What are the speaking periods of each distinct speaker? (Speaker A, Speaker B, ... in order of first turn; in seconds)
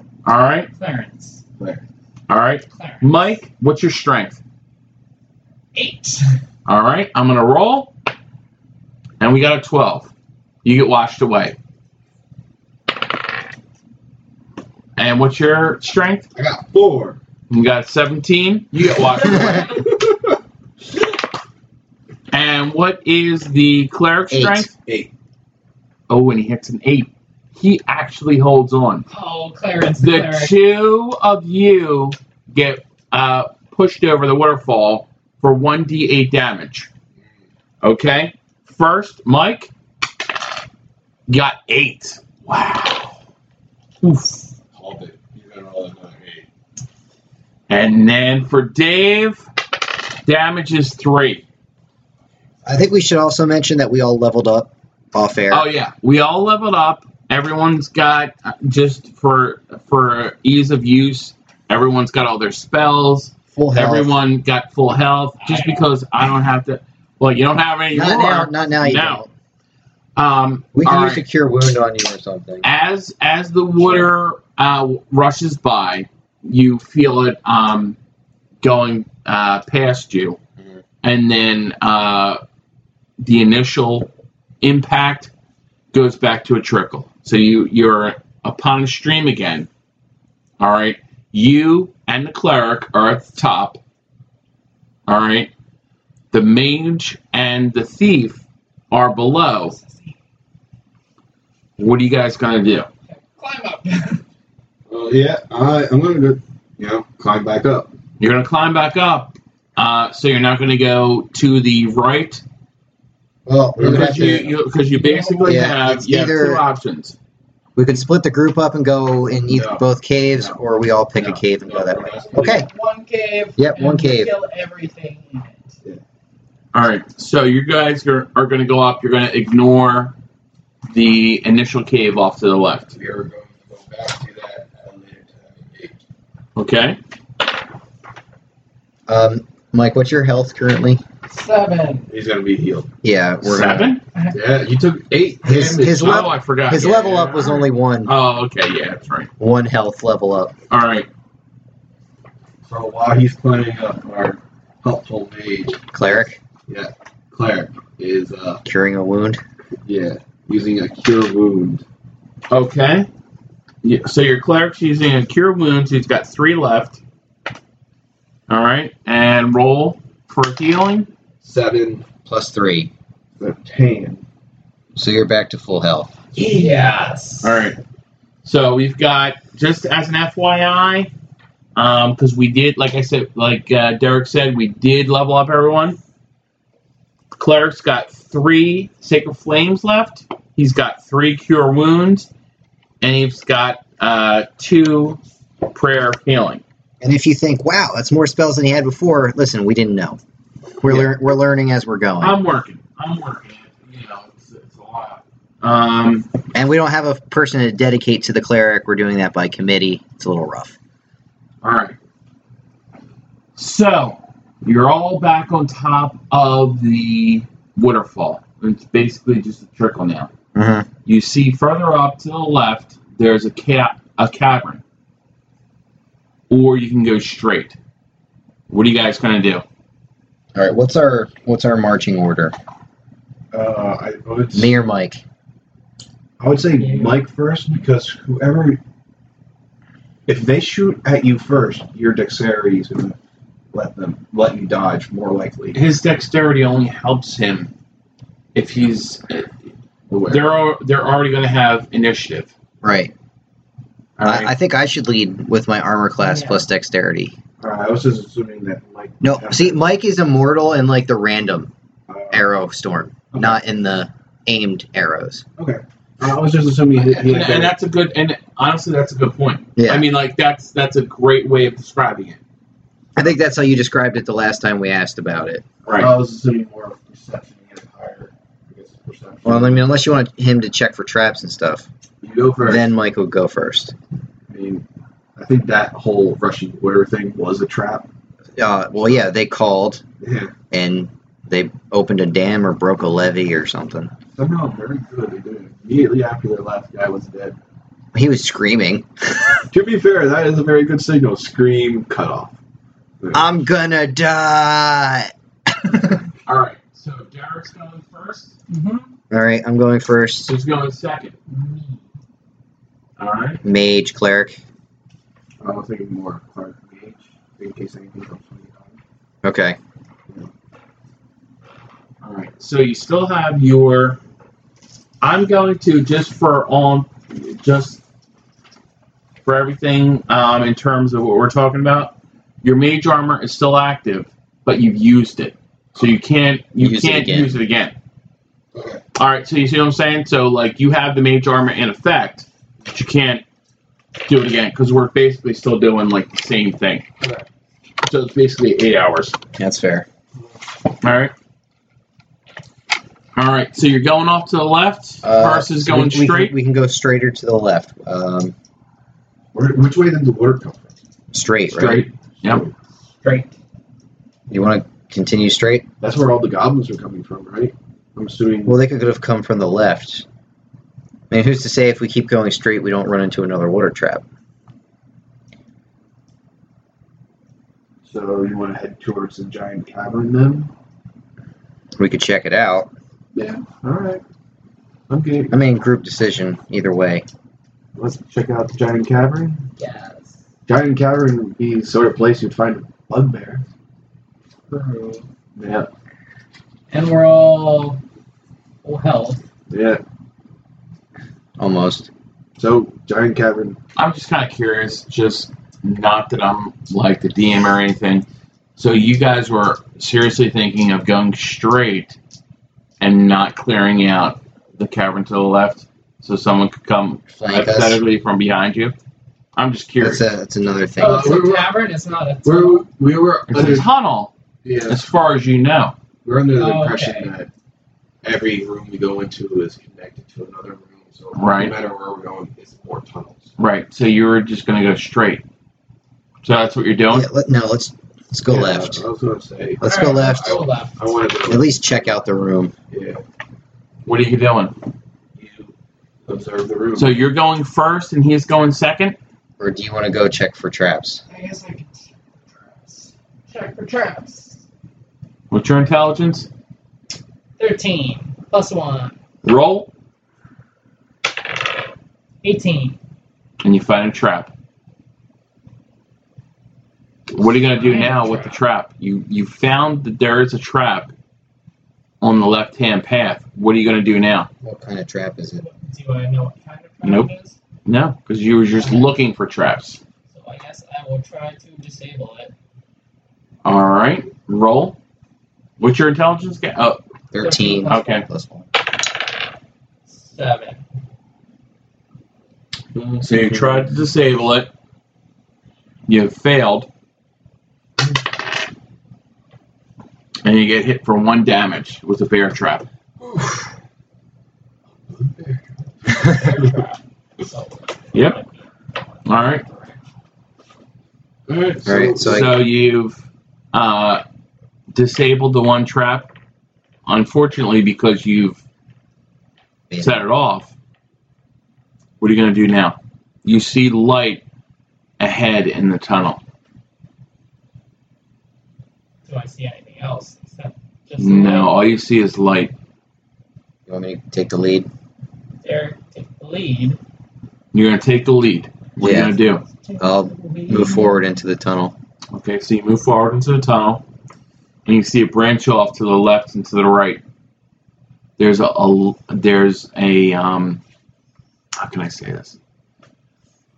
Speaker A: 0.2-0.7, 2.3-4.4, 6.7-7.9, 9.2-10.1, 10.6-11.6, 15.0-16.3, 17.5-19.7, 22.3-24.7, 26.1-29.1, 30.0-36.9, 37.8-39.7, 41.3-43.2, 44.0-44.4, 47.7-49.4, 50.2-51.4, 55.5-69.2, 70.2-71.2, 72.6-78.0, 78.6-80.4, 81.0-82.4, 83.2-84.1, 84.6-85.3, 85.9-89.7, 90.6-93.8, 95.1-95.5, 96.3-99.8, 101.8-102.9, 108.2-112.4, 113.8-117.2, 126.7-130.2, 130.9-133.0, 136.6-137.0, 143.4-144.0, 145.6-149.3, 150.7-151.1, 162.5-163.1, 163.8-167.0, 168.5-171.1, 177.4-177.8, 178.4-181.1, 181.8-186.0, 187.4-192.3, 193.0-196.6, 202.2-206.3, 211.6-212.0, 213.6-220.3, 221.1-224.8, 226.5-227.8, 228.7-229.7, 245.7-247.7, 248.6-249.6, 250.3-252.5, 254.2-254.5, 267.2-272.4, 275.9-276.1, 306.5-308.5, 310.4-311.4, 313.2-313.6, 322.2-324.2, 325.2-328.0, 329.4-337.9, 339.1-343.4, 344.3-347.1, 348.0-349.4, 351.0-351.3, 353.4-356.6, 361.7-362.7, 404.0-408.3, 408.8-412.2, 413.0-419.0, 419.6-420.3, 423.5-424.3, 424.9-425.9, 431.4-431.8, 433.6-435.4, 436.4-437.3, 444.1-444.8, 447.0-449.2, 455.5-456.5, 459.4-459.9, 463.6-464.5, 467.3-471.1, 472.2-474.5, 477.0-477.3, 477.9-480.0, 483.6-485.0, 485.8-487.0, 487.9-488.2, 493.2-494.7, 496.1-496.9, 500.4-502.9, 508.1-508.4, 509.3-509.6, 512.2-514.2, 514.9-516.3, 517.1-518.6, 520.0-520.7, 522.2-524.4, 525.2-526.4, 531.2-532.7, 537.7-539.6, 542.3-544.0, 544.9-547.2, 548.4-550.8, 551.8-552.6
Speaker B: 0.7-1.4, 2.7-3.3, 5.8-6.4, 29.1-30.6, 65.5-65.9, 99.6-100.2, 103.1-104.2, 114.9-115.7, 122.3-125.7, 141.3-142.1, 176.4-177.6, 236.8-237.2, 256.2-256.6, 308.7-309.1, 311.5-312.1, 363.2-363.6, 389.8-390.4, 394.7-395.3, 396.9-398.0, 398.8-399.4, 421.0-422.9, 426.5-427.3, 439.8-441.1, 451.3-454.6, 457.6-459.1, 462.4-463.0, 467.7-468.6, 475.6-477.6, 478.8-479.1, 480.3-482.5, 487.4-488.2, 490.1-490.8, 506.1-508.5, 509.6-509.9, 529.3-531.8, 535.6-537.0, 539.7-541.2
Speaker C: 16.3-17.2, 19.1-20.2, 44.7-46.5, 104.9-107.9, 113.8-114.5, 119.5-120.6, 121.2-122.7, 132.9-136.0, 142.1-142.9, 144.3-146.2, 152.7-158.6, 159.8-161.8, 171.4-172.1, 173.4-174.2, 176.3-176.9, 233.5-234.8, 236.4-238.8, 240.3-243.2, 243.7-245.8, 250.1-250.5, 257.6-259.9, 262.1-262.5, 263.3-263.6, 265.6-267.8, 275.9-279.8, 282.2-282.9, 284.5-284.9, 285.4-288.1, 290.2-290.5, 294.4-297.6, 299.7-302.6, 303.2-303.5, 315.6-319.0, 338.7-339.0, 347.2-347.5, 359.5-360.9, 362.4-362.7, 366.0-368.8, 378.1-380.7, 383.4-384.2, 385.1-385.6, 388.0-389.6, 390.7-393.6, 395.6-395.9, 399.7-400.0, 402.6-403.8, 421.0-421.7, 422.4-423.9, 424.6-425.0, 426.2-427.5, 428.2-433.5, 438.5-441.7, 442.9-443.2, 445.4-445.7, 446.3-447.2, 492.9-493.8, 503.2-503.7, 505.1-506.9, 511.5-512.5
Speaker D: 24.3-24.7, 52.6-55.7, 63.5-64.1, 67.9-69.3, 70.7-72.7, 113.5-114.5, 115.4-116.6, 117.8-122.7, 123.6-124.3, 139.1-141.0, 143.0-143.9, 145.4-148.1, 149.4-150.5, 155.9-156.4, 158.6-159.4, 172.3-172.9, 175.0-176.1, 197.0-200.2, 200.8-202.4, 206.5-210.8, 220.5-220.9, 230.6-232.6, 234.5-235.2, 252.8-253.1, 254.2-257.4, 259.2-261.7, 262.3-265.4, 269.8-270.1, 273.2-275.6, 279.4-281.9, 282.6-283.9, 288.6-290.0, 290.7-294.1, 298.1-299.6, 303.3-306.2, 309.3-310.5, 313.6-314.6, 319.4-319.8, 336.8-337.5, 349.6-350.1, 355.2-358.5, 361.3-362.1, 364.5-365.9, 368.7-370.2, 371.3-374.2, 382.0-382.9, 385.5-387.3, 401.6-402.1, 417.3-418.0, 420.0-421.4, 437.1-439.0, 439.8-440.6, 441.4-442.7, 449.6-451.2, 474.6-475.6, 487.3-488.7, 511.9-512.5, 519.9-520.2, 533.9-534.9, 539.0-539.4, 540.0-541.9